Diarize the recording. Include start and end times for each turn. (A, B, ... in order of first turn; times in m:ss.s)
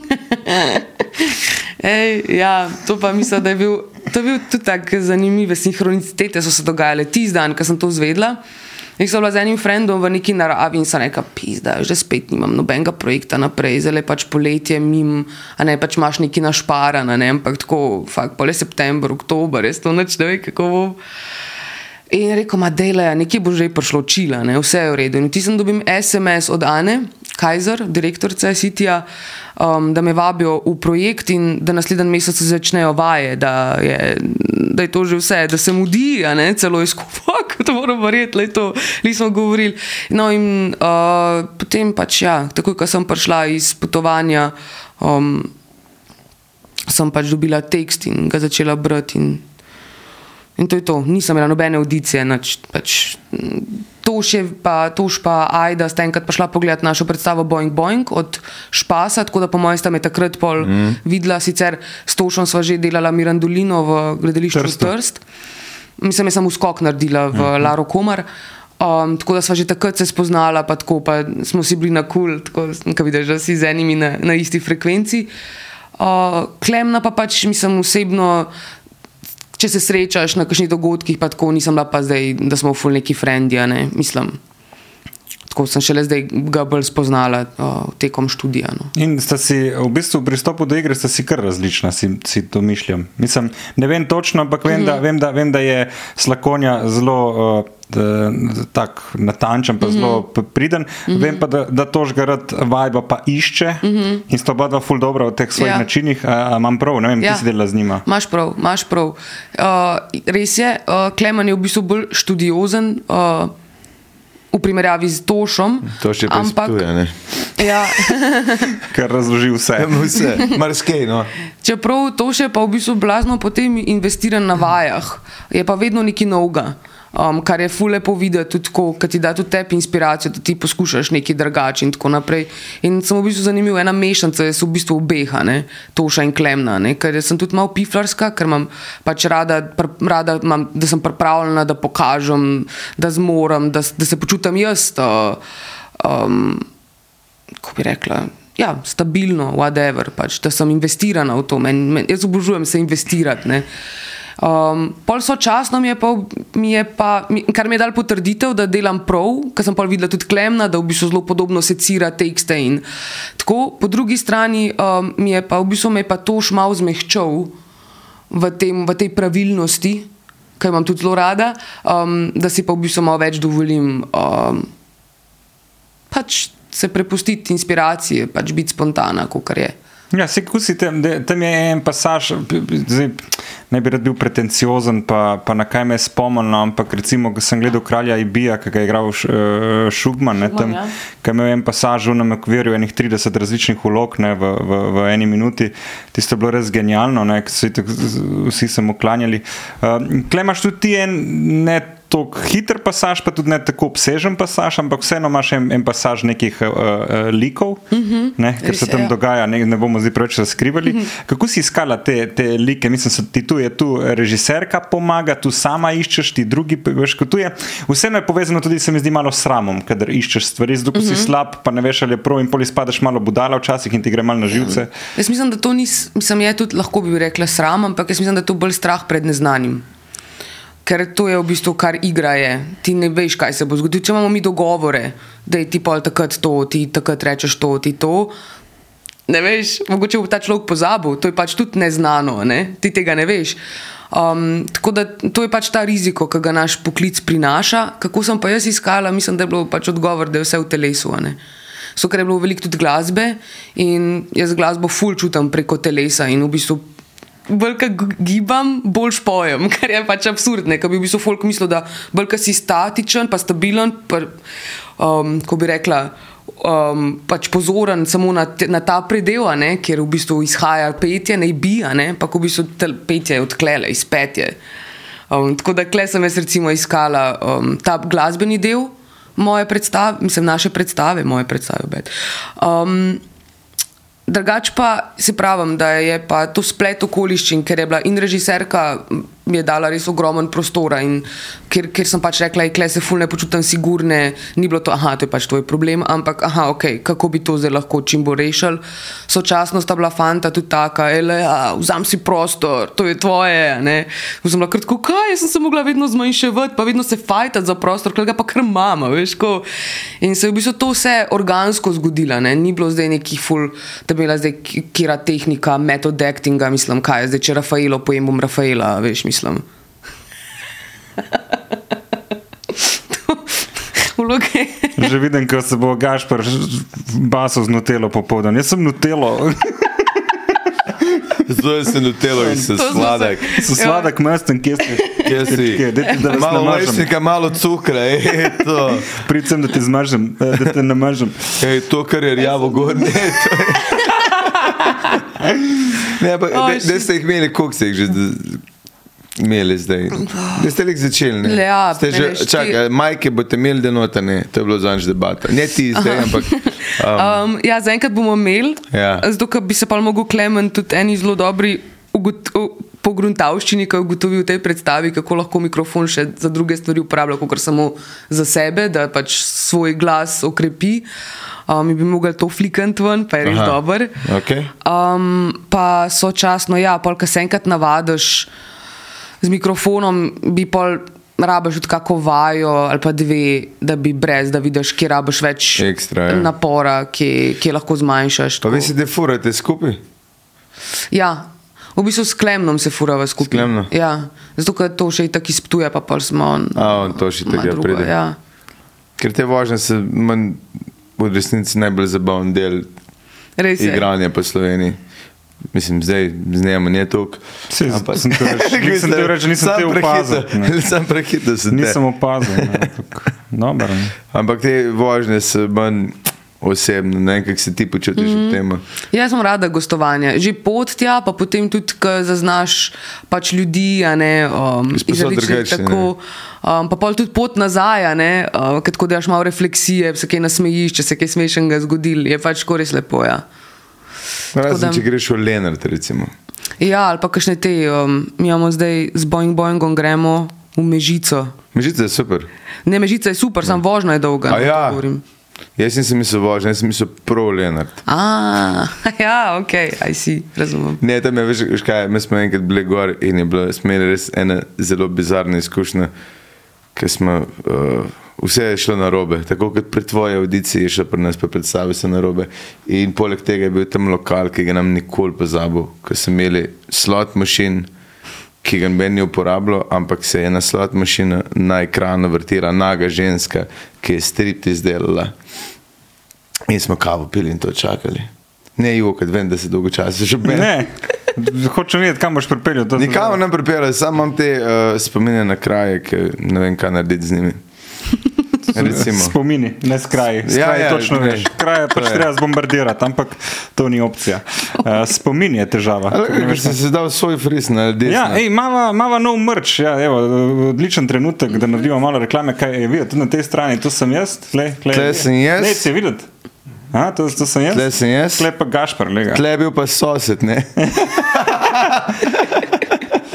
0:00.2-0:08.4 A
0:09.0-0:21.0 A
0:22.1-0:29.1 A
0:29.6-0:45.5 A
0:46.9-0:49.4 A
0:50.6-1:05.2 A
1:00.6-1:01.0 B
1:04.5-1:04.9 C
1:06.0-1:08.3 A
1:08.8-1:15.3 A
1:16.0-1:18.5 A
1:19.6-1:24.4 A
1:25.5-1:28.9 A
1:29.0-1:48.0 C
1:34.7-1:35.0 A
1:39.8-1:40.2 A
1:41.1-1:41.4 A
1:43.8-1:44.2 A
1:45.6-1:45.9 A
1:47.2-1:47.5 A
1:48.0-1:53.5 A
1:54.5-1:56.8 A
1:56.0-1:57.1 B
1:57.6-1:58.8 A
1:58.8-2:00.2 C
1:59.8-2:01.3 B
2:01.6-2:25.4 A
2:26.0-2:26.7 A
2:27.6-2:33.7 A
2:34.4-2:42.8 A
2:43.4-2:47.6 A
2:48.3-2:50.1 A
2:50.6-2:54.7 A
2:56.1-2:59.8 A
3:00.1-3:44.9 C
3:10.5-3:10.9 A
3:27.9-3:29.1 A
3:41.0-3:41.3 A
3:44.6-3:49.8 A
3:50.8-3:58.3 A
3:59.3-4:03.6 A
4:04.1-4:11.4 A
4:12.0-4:16.8 A
4:17.5-4:24.4 A
4:25.0-4:34.6 A
4:35.3-4:43.2 A
4:44.3-5:09.7 A
5:10.2-5:19.6 A
5:23.1-5:25.1 A
5:25.0-5:30.0 C
5:31.5-5:33.4 B
5:32.4-5:37.1 C
5:32.7-5:34.1 A
5:35.0-5:35.3 A
5:35.2-5:39.2 B
5:38.9-5:41.6 C
5:41.6-5:44.5 B
5:46.1-5:48.6 B
5:46.5-5:47.1 A
5:49.4-5:57.4 B
5:51.4-5:52.8 A
5:56.0-6:11.1 A
5:58.9-5:59.2 B
6:11.7-6:14.2 A
6:13.4-6:14.7 B
6:14.8-6:18.5 A
6:19.4-6:28.9 A
6:25.8-6:26.5 B
6:28.6-6:30.0 B
6:31.1-6:38.4 A
6:33.4-6:33.9 B
6:36.8-6:38.2 B
6:39.2-6:40.6 B
6:41.2-6:42.9 B
6:43.6-6:44.1 A
6:43.8-6:45.0 B
6:45.7-6:52.9 B
6:47.7-6:50.8 C
6:51.7-6:54.2 C
6:54.3-6:58.8 B
6:58.2-6:58.6 A
6:59.1-7:13.4 A
7:04.9-7:06.1 B
7:14.5-7:16.3 B
7:14.6-7:15.0 A
7:16.8-7:21.6 A
7:21.7-7:22.5 B
7:22.9-7:25.2 A
7:24.5-7:25.0 B
7:25.8-7:28.0 B
7:28.1-7:31.0 A
7:31.0-7:36.1 B
7:37.0-7:47.9 B
7:48.6-7:55.3 B
7:56.7-8:00.7 B
8:00.5-8:03.4 C
8:03.0-8:07.6 B
8:08.7-8:09.4 B
8:08.7-8:16.8 C
8:10.4-8:12.2 B
8:16.1-8:18.4 B
8:18.1-8:26.3 C
8:24.9-8:25.9 B
8:26.9-8:29.4 C
8:27.7-8:28.5 B
8:29.3-8:32.8 B
8:30.8-8:31.7 C